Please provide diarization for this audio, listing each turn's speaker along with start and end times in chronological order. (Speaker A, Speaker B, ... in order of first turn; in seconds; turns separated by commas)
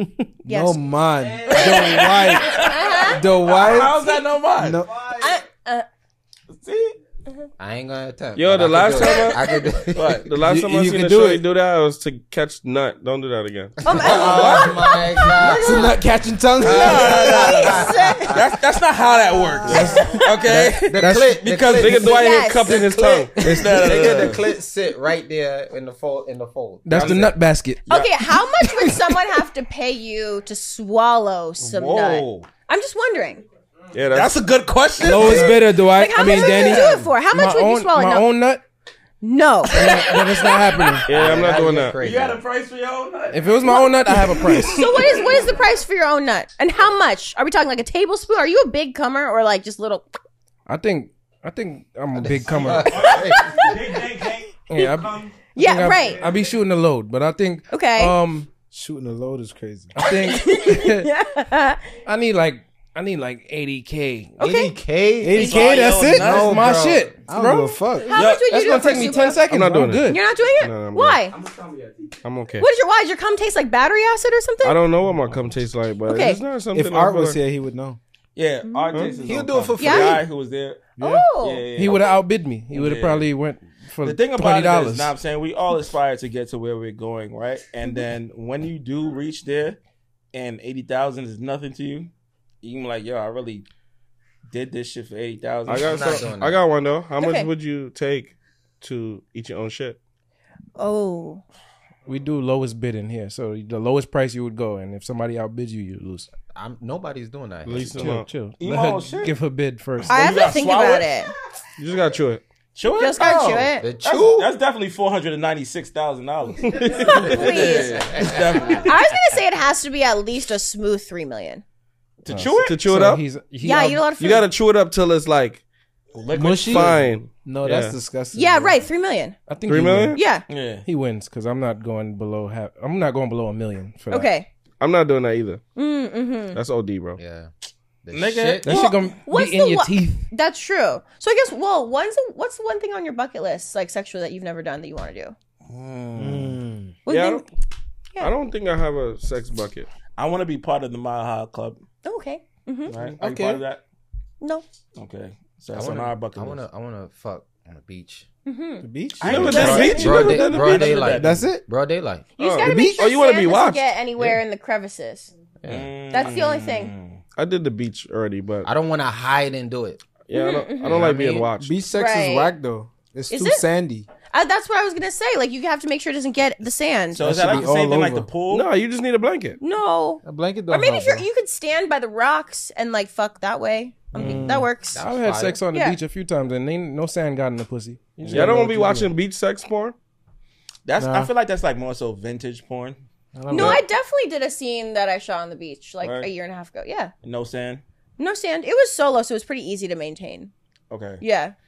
Speaker A: 0.5-4.0, Speaker B: 0.5-0.8, Speaker B: 1.4-3.2, Speaker C: 1.5-4.9, Speaker A: 4.6-5.0, Speaker B: 5.0-5.9, Speaker C: 6.5-7.0, Speaker D: 7.6-10.3, Speaker E: 8.4-9.4, Speaker B: 9.0-9.6, Speaker C: 9.9-10.3, Speaker E: 10.2-13.9, Speaker A: 10.4-11.4, Speaker B: 13.8-15.9, Speaker D: 13.9-16.0, Speaker C: 13.9-14.9, Speaker A: 15.4-17.9, Speaker D: 16.6-18.4, Speaker C: 16.6-24.5, Speaker B: 17.1-18.4, Speaker B: 19.3-20.1, Speaker F: 19.7-20.3, Speaker D: 20.4-27.3, Speaker F: 21.0-21.4, Speaker E: 21.8-23.6, Speaker B: 22.0-22.8, Speaker F: 23.4-24.2, Speaker F: 26.9-27.9, Speaker C: 26.9-27.3, Speaker C: 27.9-28.1, Speaker B: 27.9-33.4, Speaker F: 28.6-29.0, Speaker C: 31.6-32.5, Speaker E: 33.9-34.4, Speaker C: 34.1-37.0, Speaker F: 35.0-38.6, Speaker D: 35.1-35.5, Speaker B: 35.8-38.3, Speaker B: 39.2-41.0, Speaker F: 39.7-41.3, Speaker C: 39.8-40.5, Speaker E: 41.1-42.0, Speaker D: 41.1-42.4, Speaker C: 42.0-45.5, Speaker F: 43.3-45.0, Speaker B: 43.7-50.1, Speaker F: 50.7-53.1, Speaker D: 52.1-53.7, Speaker C: 52.7-55.1, Speaker B: 52.8-53.8, Speaker F: 54.7-58.5, Speaker B: 55.5-56.2, Speaker B: 57.7-58.1, Speaker A: 58.7-59.9, Speaker F: 59.9-61.1, Speaker B: 60.0-61.9, Speaker F: 62.0-64.4, Speaker D: 64.4-65.5, Speaker B: 64.4-64.8, Speaker A: 65.2-68.2, Speaker C: 65.4-66.7, Speaker F: 65.4-67.8, Speaker D: 66.2-67.1, Speaker B: 68.0-69.4, Speaker C: 68.1-68.5, Speaker F: 68.5-70.2, Speaker E: 69.4-71.2, Speaker B: 70.1-71.4, Speaker E: 72.2-72.7, Speaker B: 72.6-74.8, Speaker E: 74.6-77.4, Speaker B: 76.1-76.4, Speaker A: 76.7-78.0, Speaker C: 78.4-82.2, Speaker B: 78.7-79.1, Speaker D: 79.2-80.2, Speaker B: 79.8-80.2, Speaker B: 81.0-81.7, Speaker F: 81.8-85.1, Speaker C: 82.7-83.3, Speaker C: 84.0-89.8, Speaker C: 90.3-92.1, Speaker C: 92.6-93.7, Speaker C: 94.5-96.3, Speaker E: 95.7-100.0, Speaker D: 95.7-96.6, Speaker B: 97.2-97.5, Speaker B: 100.8-101.4, Speaker F: 102.1-106.3, Speaker D: 106.5-108.2, Speaker E: 107.7-108.3, Speaker F: 108.0-110.2, Speaker C: 108.6-109.3, Speaker C: 110.0-111.1, Speaker B: 110.1-111.3, Speaker E: 111.8-112.4, Speaker C: 112.8-119.0, Speaker B: 113.0-113.8, Speaker D: 113.8-114.5, Speaker E: 116.6-117.8, Speaker B: 116.9-118.2, Speaker B: 118.8-121.6, Speaker C: 122.2-122.8, Speaker F: 122.3-124.1, Speaker E: 122.5-123.3, Speaker B: 123.6-124.5, Speaker E: 124.2-125.6, Speaker C: 126.1-127.0, Speaker A: 126.3-128.8, Speaker E: 126.7-128.0, Speaker B: 128.3-129.4, Speaker F: 129.5-130.2, Speaker E: 129.7-130.2, Speaker B: 130.1-130.4, Speaker C: 130.5-130.9, Speaker F: 130.8-134.3, Speaker B: 134.1-134.5, Speaker E: 134.8-135.6, Speaker B: 135.8-136.6, Speaker E: 136.5-137.2, Speaker D: 137.2-137.5, Speaker D: 138.1-138.9, Speaker C: 138.1-139.1, Speaker F: 138.7-140.3, Speaker B: 139.2-145.4, Speaker C: 145.7-146.6, Speaker A: 146.2-146.9, Speaker B: 147.1-147.4, Speaker E: 147.1-147.4, Speaker E: 148.2-149.9, Speaker C: 150.2-151.8, Speaker B: 152.0-152.9, Speaker E: 152.9-153.2, Speaker C: 152.9-153.8, Speaker A: 153.2-153.6, Speaker C: 155.0-156.7, Speaker D: 155.7-158.3, Speaker B: 158.5-158.9, Speaker A: 158.8-159.8, Speaker C: 159.2-161.4, Speaker E: 159.2-161.1, Speaker D: 159.3-162.3, Speaker B: 159.5-159.9, Speaker A: 161.1-161.7, Speaker E: 162.4-164.4, Speaker B: 162.4-165.3, Speaker A: 162.6-163.1, Speaker D: 165.6-165.9, Speaker C: 165.7-167.2, Speaker B: 166.1-166.9, Speaker E: 167.4-168.7, Speaker D: 168.6-170.0, Speaker E: 170.3-171.8, Speaker B: 170.3-171.1, Speaker D: 170.8-171.5, Speaker A: 171.6-174.1, Speaker B: 171.9-172.5, Speaker B: 173.3-173.7, Speaker B: 174.3-177.3, Speaker C: 177.2-178.7, Speaker A: 177.2-178.3, Speaker E: 178.5-179.6, Speaker B: 179.6-185.0, Speaker A: 180.2-181.3, Speaker A: 184.1-184.7, Speaker D: 184.9-185.6, Speaker F: 185.0-189.1, Speaker B: 185.7-186.0, Speaker C: 188.2-188.6, Speaker E: 188.3-189.9, Speaker C: 190.9-193.0, Speaker A: 191.0-191.3, Speaker A: 193.3-193.8, Speaker B: 193.5-197.1, Speaker E: 193.6-193.8, Speaker C: 196.0-196.3, Speaker C: 197.2-197.8, Speaker B: 198.2-200.5, Speaker C: 200.9-201.2, Speaker B: 201.2-201.5